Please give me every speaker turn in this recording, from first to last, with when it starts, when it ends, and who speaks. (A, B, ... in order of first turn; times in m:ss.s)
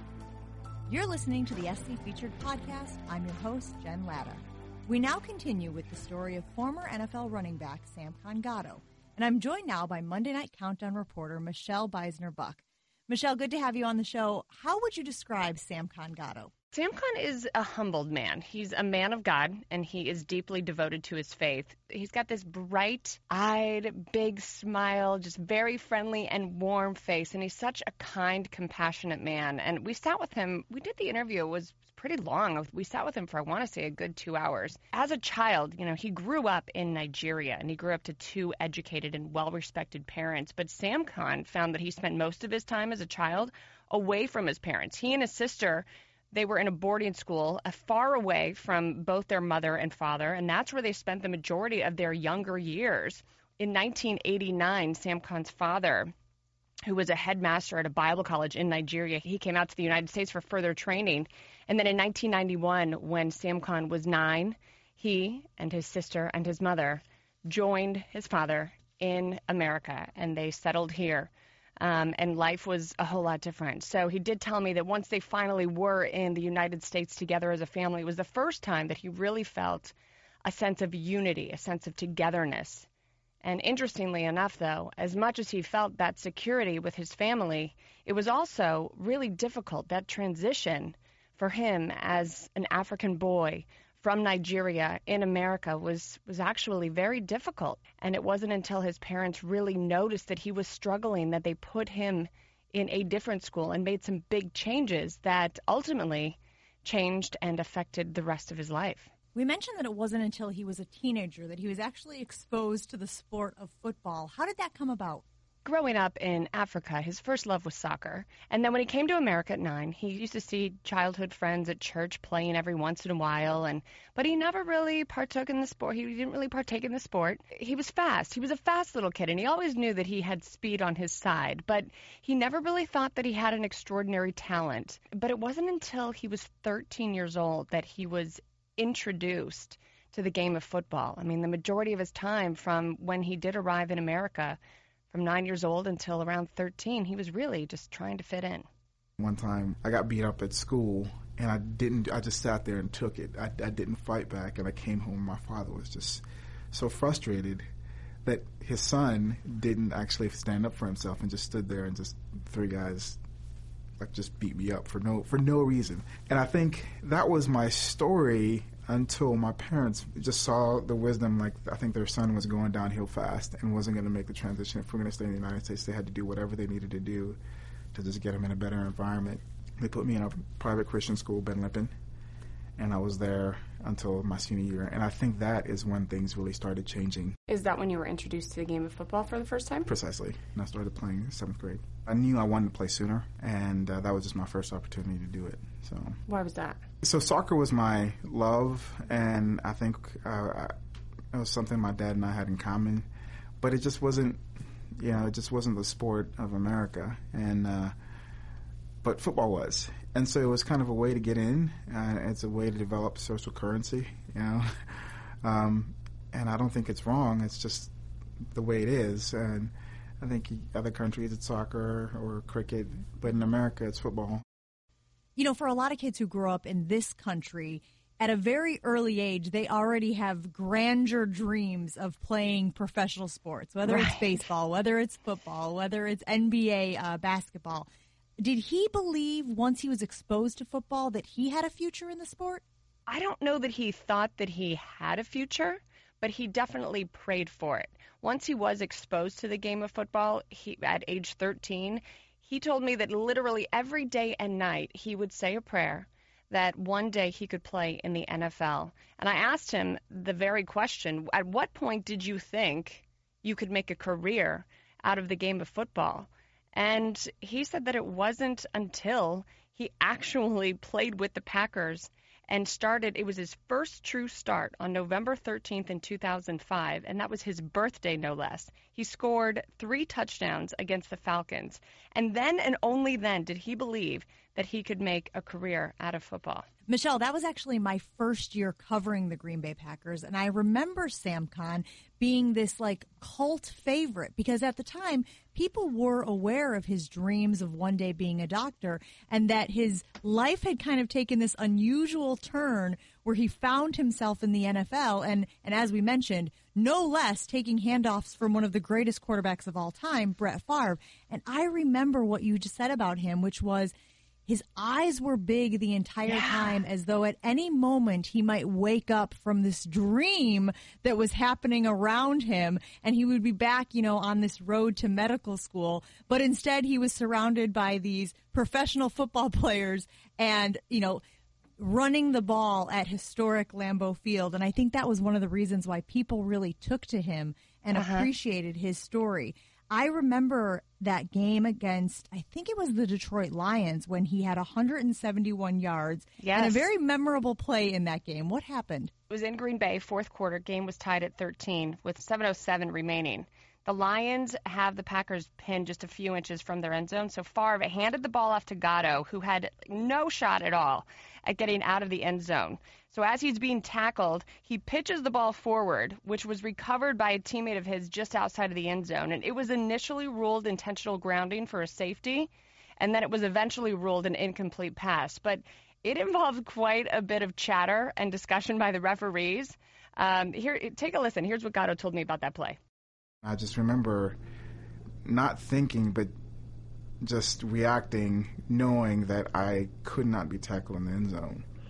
0:00.9-0:16.5 A
0:16.7-0:56.1 B
0:56.9-1:19.9 B
1:20.4-1:22.9 B
1:23.4-1:49.1 B
1:49.3-1:55.2 A
1:55.6-2:24.6 B
2:25.1-2:28.7 B
2:29.2-2:37.6 C
2:38.2-2:43.2 C
2:44.0-2:57.4 C
2:57.9-3:01.9 C
3:02.8-3:07.4 C
3:07.5-3:09.9 D
3:07.6-3:09.6 B
3:09.8-3:16.2 C
3:16.3-3:16.8 D
3:17.0-3:20.7 C
3:21.3-3:23.1 C
3:23.6-3:24.4 C
3:25.0-3:27.9 C
3:29.0-3:37.9 C
3:38.5-3:44.4 C
3:45.4-3:57.9 A
3:53.8-3:54.4 B
3:58.4-4:02.6 A
4:03.1-4:46.6 B
4:46.9-5:13.9 A
5:14.5-5:31.2 A
5:16.3-5:16.7 B
5:31.8-5:49.1 A
5:37.9-5:38.3 B
5:46.4-5:46.9 B
5:49.3-6:22.8 B
6:23.4-6:24.4 C
6:25.2-6:26.3 C
6:27.2-6:31.6 C